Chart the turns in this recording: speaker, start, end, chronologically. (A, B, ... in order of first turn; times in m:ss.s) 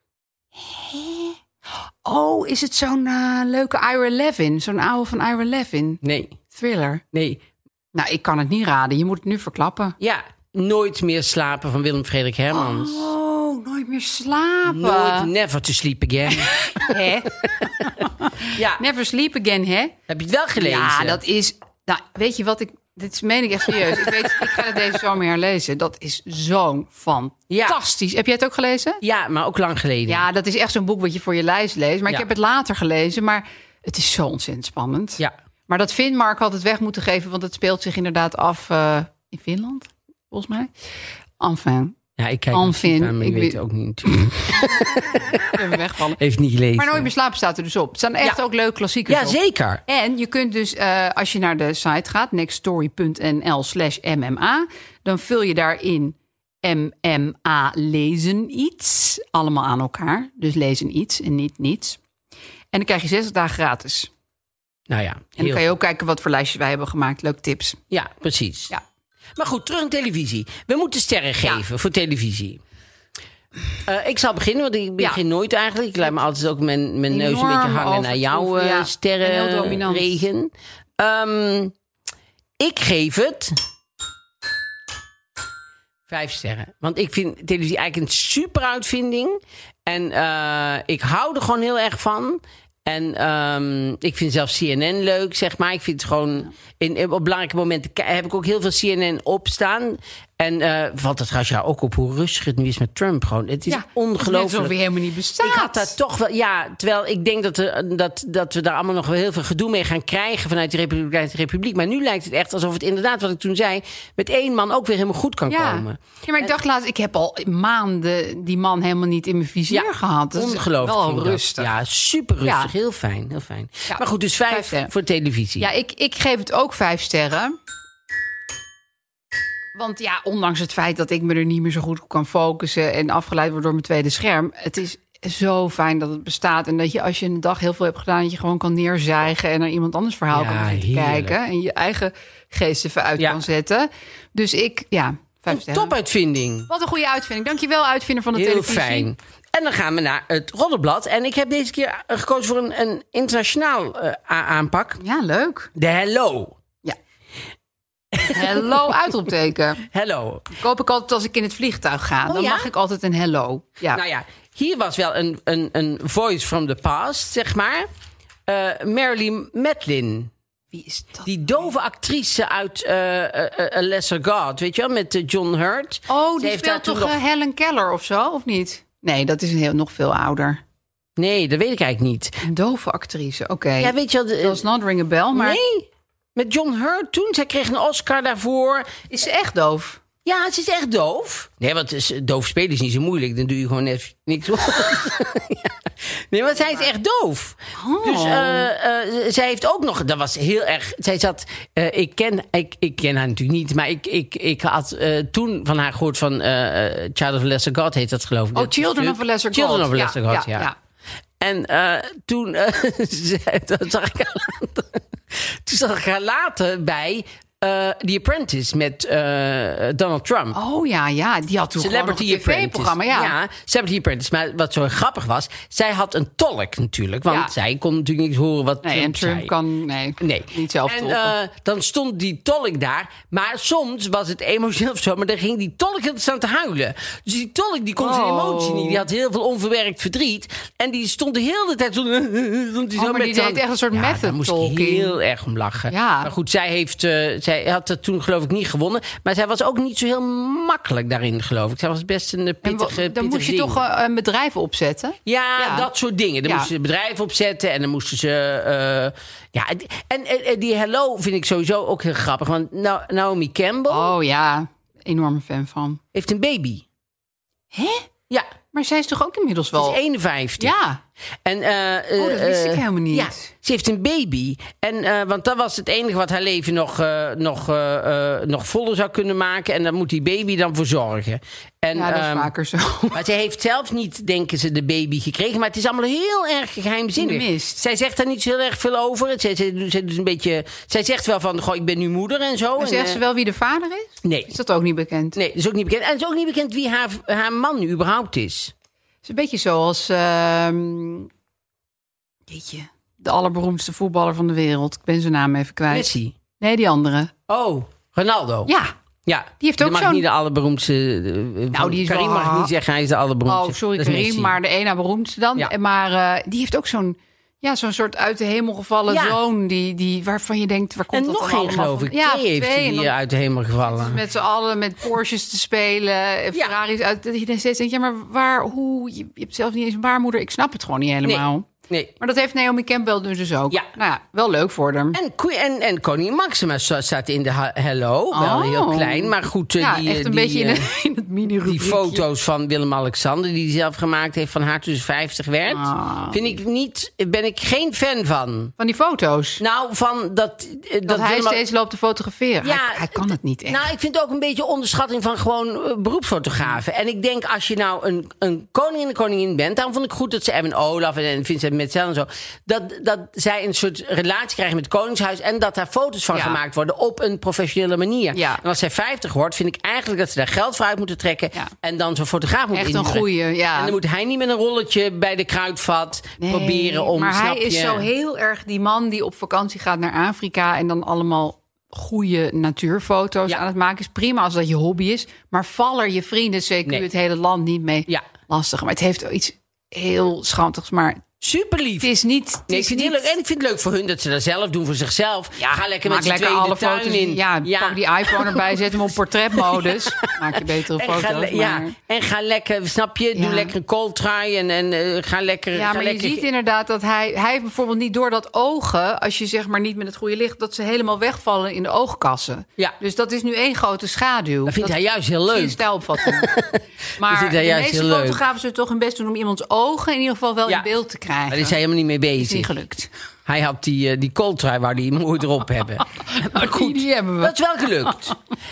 0:00.6-0:06.0 A
0:06.0-0:06.4 B
0:06.5-0:07.0 A
0:07.1-0:07.4 B
0:07.9-0:10.0 A
0:10.0-0:13.1 B
0:12.5-0:15.3 A
0:14.7-0:17.9 B
0:16.4-0:19.9 A
0:18.5-0:18.8 B
0:20.1-0:21.2 B
0:20.6-0:29.0 A
0:24.0-0:24.4 B
0:27.5-0:27.8 B
0:29.0-0:30.2 B
0:30.1-0:40.7 A
0:41.4-0:42.0 A
0:42.2-0:45.6 B
0:42.5-0:43.6 A
0:45.5-0:46.2 A
0:46.2-0:47.1 B
0:46.8-1:02.0 A
0:49.1-0:49.8 B
1:02.7-1:04.1 A
1:04.9-1:05.6 B
1:05.4-1:07.8 A
1:07.9-1:08.7 B
1:09.4-1:12.6 B
1:13.9-1:21.7 B
1:17.1-1:20.2 A
1:22.6-1:23.6 B
1:26.1-1:44.8 B
1:43.7-1:45.9 A
1:45.4-1:56.5 B
1:55.5-2:01.7 A
1:59.7-2:05.7 B
2:02.4-2:02.7 A
2:03.9-2:04.9 A
2:05.6-2:07.6 A
2:09.8-2:26.0 A
2:20.3-2:21.4 B
2:25.5-2:26.7 B
2:26.7-2:29.1 A
2:28.4-2:35.0 B
2:35.0-2:35.7 A
2:35.8-2:36.6 B
2:38.1-2:38.9 B
2:38.3-2:39.8 A
2:39.9-2:40.5 B
2:40.5-2:44.0 A
2:42.3-2:42.7 B
2:43.9-2:47.9 B
2:48.5-2:50.3 B
2:50.7-2:51.7 A
2:51.3-2:57.2 B
2:56.1-3:00.6 A
3:01.2-3:02.4 B
3:02.4-3:05.6 A
3:03.8-3:04.6 B
3:05.4-3:08.9 B
3:09.1-3:10.0 A
3:10.2-3:15.8 B
3:16.3-3:30.7 B
3:17.8-3:18.7 A
3:28.6-3:30.8 A
3:31.4-3:40.6 B
3:40.5-3:43.4 A
3:41.8-3:49.5 B
3:48.8-3:51.3 A
3:50.2-4:13.8 B
3:58.0-3:59.0 A
4:03.0-4:05.2 A
4:05.9-4:06.3 A
4:12.6-4:15.9 A
4:15.3-4:24.1 B
4:23.9-4:26.0 A
4:26.1-4:26.8 B
4:27.7-4:28.1 A
4:28.7-4:30.0 A
4:29.8-4:30.7 B
4:30.6-4:31.0 A
4:31.4-4:42.5 B
4:32.2-4:33.5 A
4:42.0-4:43.2 A
4:43.1-4:53.2 B
4:47.2-4:47.8 A
4:52.8-4:55.4 A
4:54.2-4:54.5 B
4:55.4-4:58.7 B
4:59.2-5:01.3 A
5:02.5-5:06.1 A
5:05.9-5:06.4 B
5:06.6-5:07.3 A
5:07.5-5:08.7 B
5:08.7-5:08.9 A
5:09.3-5:14.6 B
5:09.6-5:10.2 A
5:11.7-5:12.7 A
5:13.5-5:23.1 A
5:19.1-5:19.4 B
5:21.1-5:24.2 B
5:23.9-5:31.7 A
5:31.2-5:32.1 B
5:32.2-5:35.2 A
5:35.1-5:40.9 B
5:38.3-5:42.2 A
5:41.7-5:48.7 B
5:45.7-5:46.4 A
5:48.8-5:49.6 A
5:49.6-5:51.6 B
5:51.1-5:53.8 A
5:52.6-6:18.1 B
6:06.3-6:06.6 A
6:08.3-6:08.6 A
6:12.7-6:14.0 A
6:16.4-6:31.2 A
6:31.4-6:32.1 B
6:32.0-6:33.3 A
6:32.7-6:38.8 B
6:35.6-6:41.9 A
6:39.6-6:40.3 B
6:41.0-6:46.4 B
6:43.4-6:43.7 A
6:45.7-6:55.0 A
6:54.7-6:58.4 B
6:55.5-6:56.5 A
6:57.2-7:01.8 A
7:01.5-7:02.7 B
7:02.4-7:03.1 A
7:03.5-7:08.4 B
7:06.2-7:07.5 A